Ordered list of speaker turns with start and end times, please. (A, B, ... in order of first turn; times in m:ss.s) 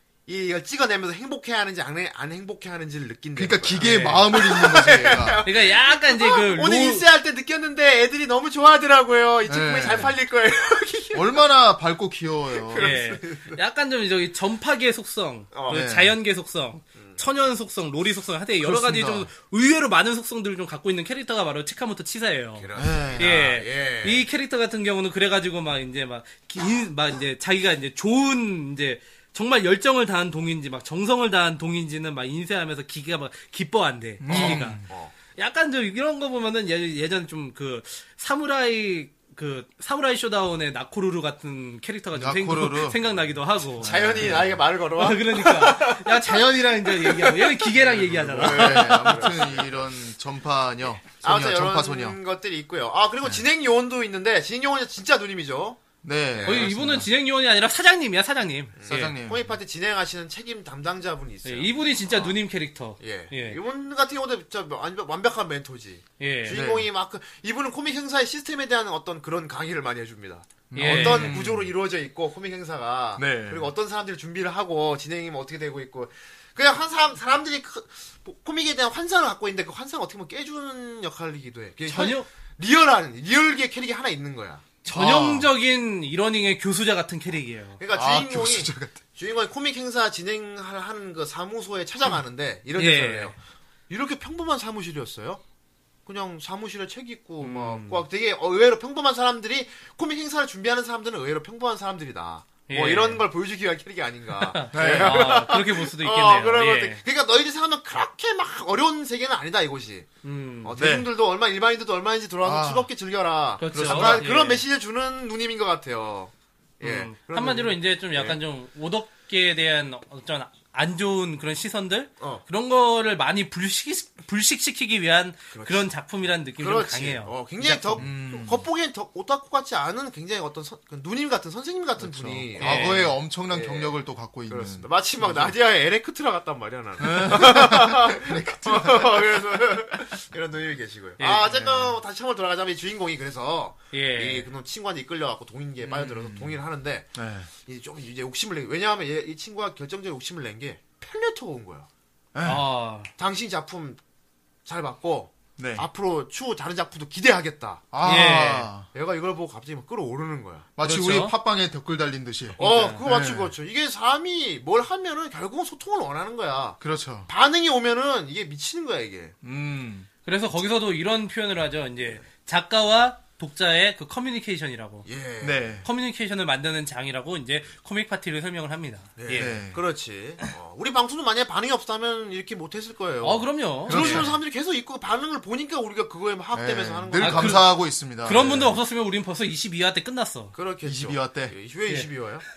0:00.3-0:11.4 A
0:03.4-0:05.4 B
0:03.8-0:04.2 C
0:05.4-0:07.0 C
0:09.5-0:10.2 B
0:11.1-0:12.9 B
0:12.6-0:13.6 A
0:12.8-0:49.3 C
0:15.5-0:15.8 A
0:15.7-0:16.2 B
0:18.6-0:19.3 B
0:22.6-0:24.2 A
0:22.8-0:23.4 B
0:34.2-0:34.9 B
0:34.3-0:35.1 A
0:42.1-0:43.0 B
0:43.8-0:44.6 B
0:43.8-0:49.8 A
0:48.0-0:52.2 B
0:51.2-0:56.7 A
0:56.0-0:57.1 B
0:56.5-0:59.1 C
0:58.8-1:02.4 A
0:58.9-0:59.5 B
1:01.4-1:03.6 C
1:03.0-1:24.6 A
1:06.2-1:06.6 C
1:06.5-1:06.9 B
1:10.7-1:11.7 B
1:10.8-1:11.4 C
1:13.2-1:13.7 B
1:21.9-1:22.3 C
1:24.8-1:27.8 C
1:24.9-1:25.5 B
1:27.8-1:33.4 A
1:27.9-1:29.0 B
1:32.8-1:33.3 C
1:33.9-1:35.4 A
1:36.1-1:50.1 A
1:37.4-1:38.0 C
1:42.7-1:43.2 C
1:44.4-1:47.0 C
1:44.7-1:45.3 B
1:50.2-1:50.8 C
1:50.6-1:58.4 A
1:50.8-1:51.1 B
1:52.4-1:52.9 B
1:53.6-1:54.6 C
1:53.7-1:54.3 B
1:56.8-2:08.1 C
2:05.5-2:05.9 A
2:06.6-2:12.9 A
2:08.0-2:08.7 B
2:12.0-2:15.5 B
2:12.6-2:13.1 C
2:13.5-2:31.9 A
2:17.0-2:20.2 B
2:21.2-2:21.5 C
2:21.5-2:21.9 B
2:23.9-2:24.5 C
2:25.9-2:26.6 B
2:27.2-2:27.5 B
2:32.3-2:32.6 B
2:32.4-2:33.1 C
2:33.2-2:34.0 A
2:34.6-2:37.8 A
2:35.6-2:35.9 B
2:37.9-2:38.9 B
2:38.0-2:38.7 C
2:38.9-2:40.7 A
2:40.8-2:43.5 B
2:40.8-2:41.3 C
2:42.6-2:43.0 C
2:42.6-2:49.4 A
2:46.8-2:47.3 B
2:49.4-2:50.1 B
2:50.3-2:55.1 C
2:55.0-2:55.8 A
2:55.4-2:55.9 B
2:55.8-2:59.6 C
2:59.2-3:07.6 A
2:59.3-2:59.8 B
3:03.2-3:04.3 C
3:03.9-3:04.4 B
3:06.5-3:08.8 B
3:07.2-3:10.5 C
3:10.5-3:12.4 A
3:10.8-3:11.5 B